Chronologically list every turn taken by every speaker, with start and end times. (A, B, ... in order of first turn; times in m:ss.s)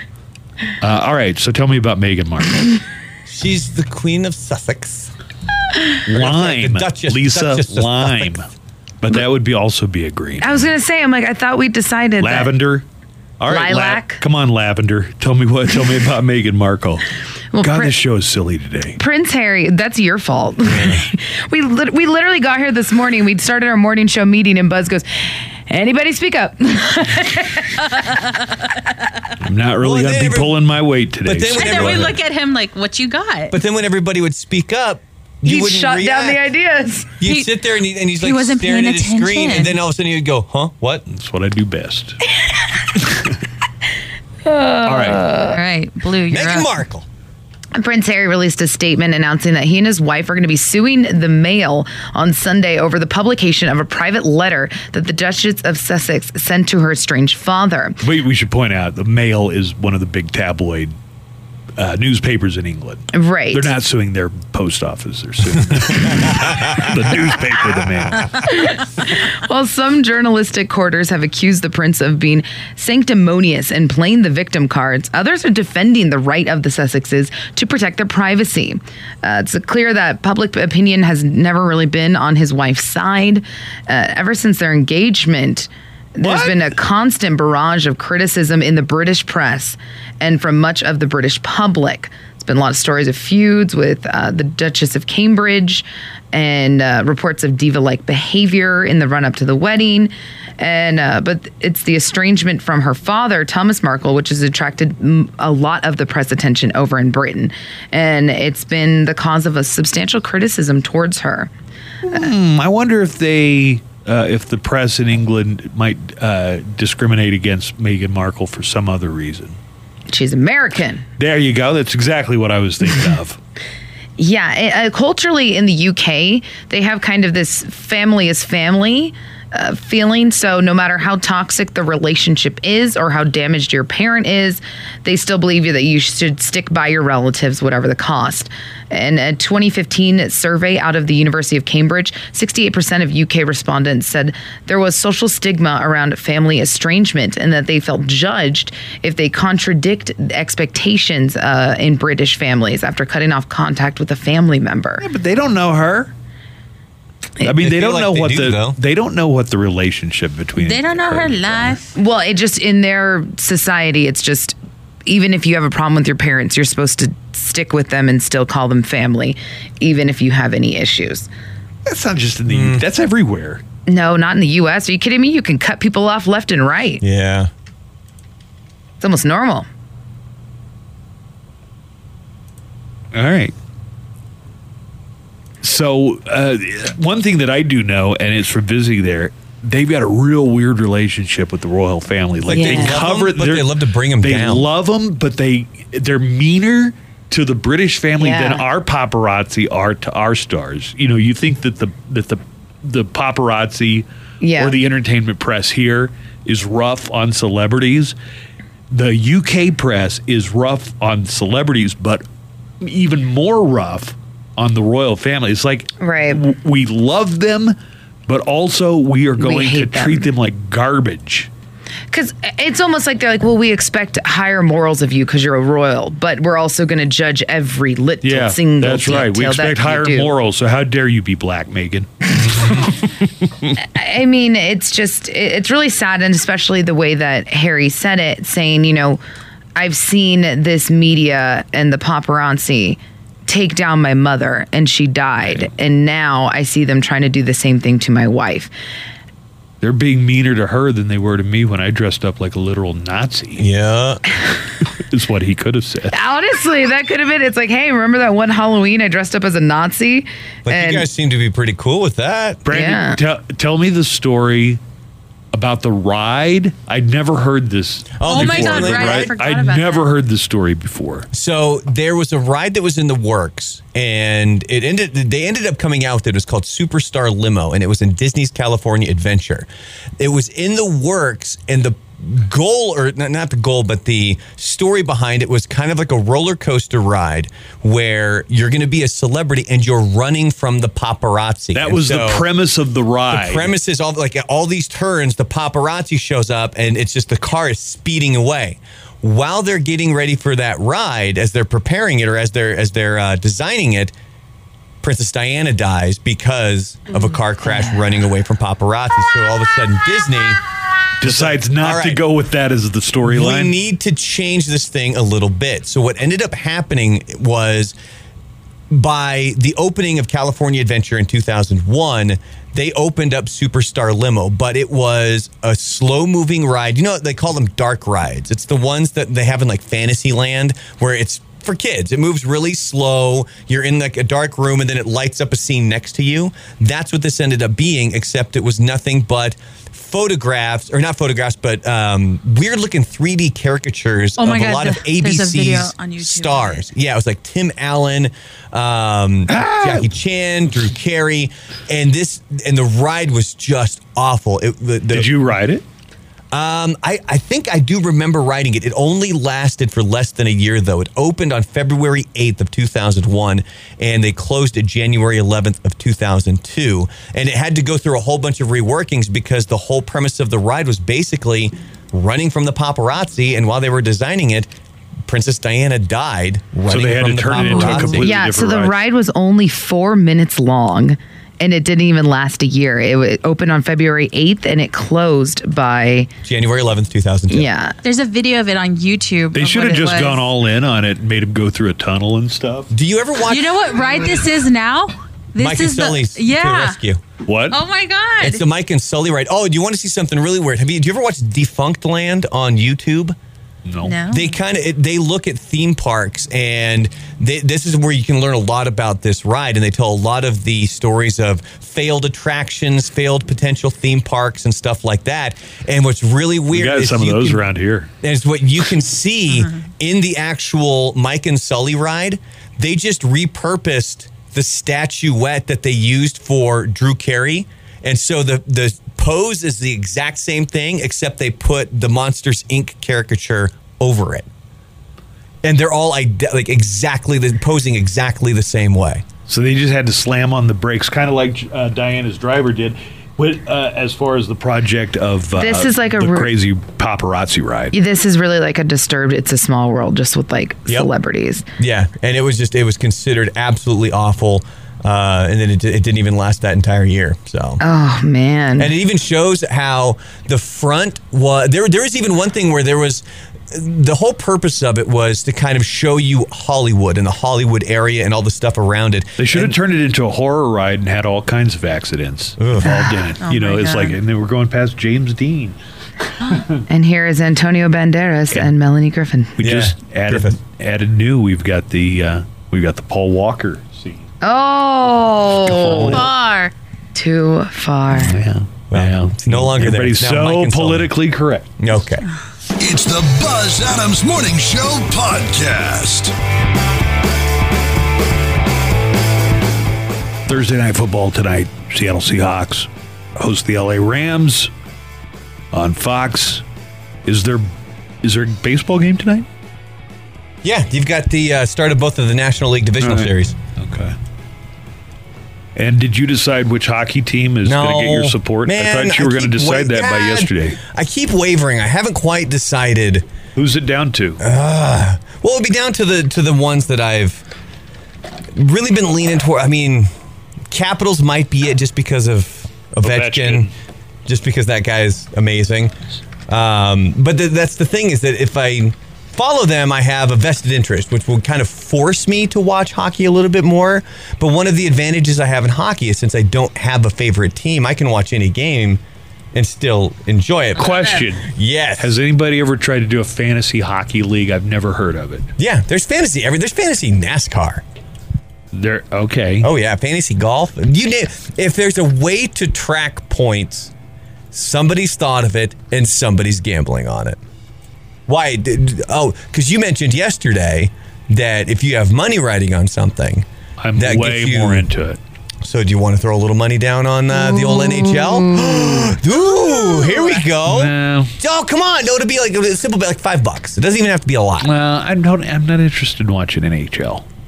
0:00.8-0:02.8 A
0:03.3-0:05.1 B
0:06.1-0:08.5 A
0:06.1-0:08.4 B
0:09.0-0:10.7 A
0:10.4-0:12.6 C
0:12.2-0:12.9 A
0:13.4-0:17.0 A
0:13.5-0:14.2 C
0:17.5-0:18.0 C
0:17.6-0:19.0 A
0:19.0-0:27.8 C
0:28.0-0:28.5 D
0:29.4-0:32.2 A
0:29.8-0:30.7 B
0:31.2-0:32.2 B
0:31.6-0:33.6 D
0:33.5-0:36.4 B
0:35.4-0:37.2 C
0:37.2-0:41.0 B
0:37.2-0:37.6 D
0:38.1-0:39.8 D
0:41.1-0:42.2 A
0:43.0-0:43.4 A
0:44.5-0:45.6 C
0:44.8-0:45.3 A
0:45.4-0:46.7 D
0:46.3-0:47.0 B
0:47.8-0:58.0 C
0:58.0-1:01.0 A
1:01.8-1:08.5 A
1:03.1-1:03.7 C
1:08.5-1:51.5 C
1:26.2-1:26.6 A
1:52.0-1:59.6 A
2:00.1-2:01.1 C
2:01.2-2:03.4 A
2:04.2-2:35.1 C
2:35.0-2:36.1 A
2:37.4-2:41.8 A
2:37.6-2:38.8 B
2:40.6-2:41.9 D
2:42.0-2:51.3 C
2:51.8-2:53.6 A
2:52.5-2:52.8 B
2:53.9-2:57.0 C
2:57.0-2:57.5 B
2:59.0-2:59.7 C
3:03.1-3:03.5 A
3:05.6-3:28.2 A
3:12.5-3:14.7 B
3:12.5-3:13.1 C
3:18.2-3:18.7 C
3:24.4-3:24.8 C
3:28.9-3:32.2 A
3:32.8-3:41.5 A
3:36.0-3:36.5 C
3:39.4-3:40.3 C
3:42.1-3:50.3 C
3:48.2-3:52.1 A
3:53.4-3:53.7 A
3:53.8-3:59.2 C
3:59.8-4:08.7 C
4:09.8-4:13.6 A
4:13.6-4:14.2 B
4:14.9-4:16.2 A
4:16.1-4:21.1 C
4:20.7-4:22.6 B
4:22.6-4:24.8 A
4:22.7-4:23.2 C
4:25.5-4:31.3 A
4:28.2-4:29.4 B
4:28.2-4:30.1 D
4:31.3-4:39.7 B
4:40.2-4:52.5 B
4:51.8-4:53.7 A
4:53.3-5:04.1 B
5:05.0-5:10.6 B
5:11.2-5:13.8 A
5:11.2-5:12.2 B
5:13.2-5:18.0 B
5:18.9-5:55.3 B
5:44.4-5:46.9 D
5:49.5-5:50.1 A
5:55.1-5:55.8 A
5:56.5-6:14.7 B
6:15.3-6:18.3 B
6:16.9-6:19.0 A
6:18.1-6:26.3 C
6:26.4-6:27.7 B
6:27.5-6:28.0 C
6:28.0-6:30.4 D
6:29.5-6:32.9 A
6:32.9-6:34.0 B
6:33.5-6:37.0 D
6:35.6-6:37.2 B
6:37.4-6:37.8 A
6:37.7-6:38.6 D
6:38.4-6:43.4 B
6:43.8-6:44.2 A
6:44.0-6:44.6 D
6:44.3-6:57.6 B
6:56.7-6:58.1 A
6:58.2-7:14.5 B
7:15.6-7:19.2 B
7:19.5-7:28.0 A
7:25.6-7:26.5 C
7:27.9-7:31.6 C
7:31.8-7:37.8 B
7:37.8-7:38.9 C
7:38.8-7:49.8 B
7:49.4-7:55.8 A
7:52.6-7:53.0 B
7:52.9-7:53.2 C
7:53.4-7:54.2 D
7:56.5-7:56.8 A
7:56.9-7:59.6 C
7:59.6-8:04.3 A
7:59.6-8:00.6 B
8:04.4-8:06.3 C
8:05.6-8:06.3 A
8:06.1-8:06.7 D
8:07.2-8:08.4 C
8:08.2-8:11.7 A
8:08.9-8:11.1 B
8:11.8-8:12.3 B
8:12.8-8:16.3 E
8:20.5-8:24.7 A
8:25.7-8:26.6 A
8:27.2-8:27.7 A
8:28.2-8:29.5 A
8:30.6-8:33.6 B
8:33.0-8:34.2 A
8:35.8-8:40.8 A
8:37.6-8:43.3 B
8:43.6-8:44.4 A
8:44.4-8:47.4 B
8:48.5-8:50.1 B
8:50.7-8:53.7 B
8:53.0-8:53.7 A
8:54.3-8:55.9 B
8:56.5-9:09.0 B
9:09.5-9:12.2 B
9:10.8-9:15.5 A
9:15.6-9:17.8 B
9:18.7-9:19.7 A
9:19.6-9:23.9 B
9:24.5-9:27.4 B
9:28.3-9:33.5 B
9:33.8-9:35.2 A
9:34.0-9:34.9 B
9:35.6-9:44.7 B
9:37.4-9:40.4 C
9:40.6-9:41.3 A
9:44.6-9:47.2 A